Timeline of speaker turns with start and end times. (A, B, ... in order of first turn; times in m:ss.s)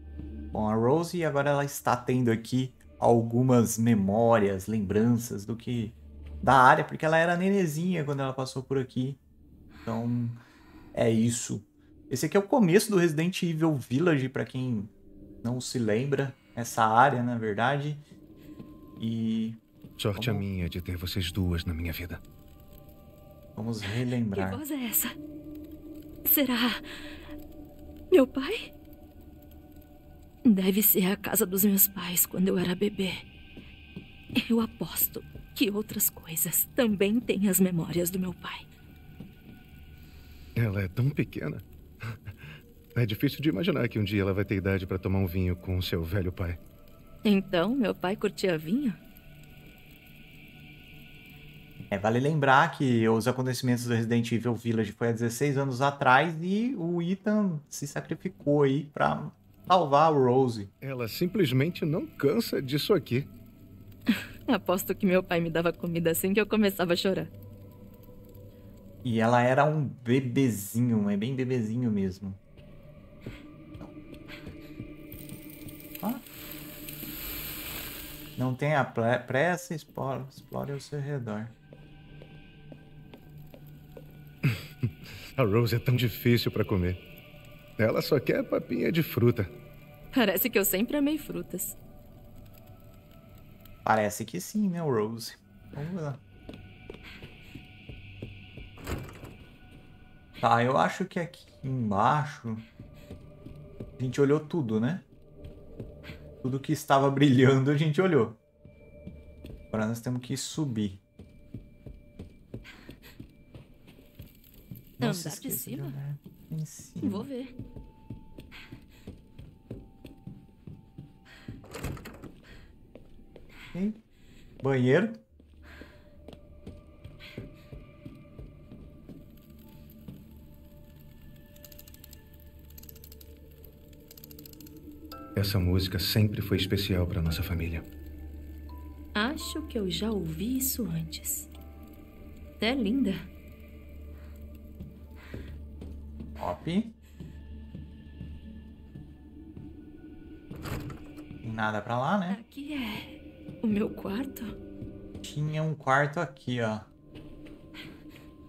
0:00.5-0:09.2 A
0:09.9-0:10.4 A
0:10.9-0:14.9 A
0:15.4-0:18.0 A
0:19.0-0:19.6 A
0:20.0-0:22.2 B
0:20.2-0:20.4 A
0:23.6-0:24.6 A
0:24.3-0:25.2 C
0:26.2-0:26.9 C
0:28.1-0:28.7 C
0:30.4-0:33.2 C
0:34.4-0:38.6 C
0:40.6-0:42.2 B
0:43.0-0:46.6 B
0:47.2-0:49.0 C
0:51.9-1:00.7 A
1:00.8-1:03.3 B
1:04.5-1:07.3 C
1:09.0-1:12.4 A
1:18.4-1:21.5 A
1:24.4-1:27.0 B
1:27.8-1:29.5 B
1:30.1-1:31.8 C
1:33.8-1:36.2 A
1:40.4-1:42.7 A
1:44.0-1:45.0 A
1:46.4-1:48.4 A
1:49.7-1:51.0 A
1:55.0-1:56.0 C
1:55.0-1:57.3 A
1:57.0-1:57.5 C
2:03.7-2:04.0 A
2:04.6-2:05.2 A
2:15.4-2:17.8 B
2:19.2-2:21.5 C
2:22.6-2:23.3 C
2:26.4-2:26.9 A
2:31.4-2:32.4 A
2:32.3-2:34.6 C
2:35.2-2:36.9 A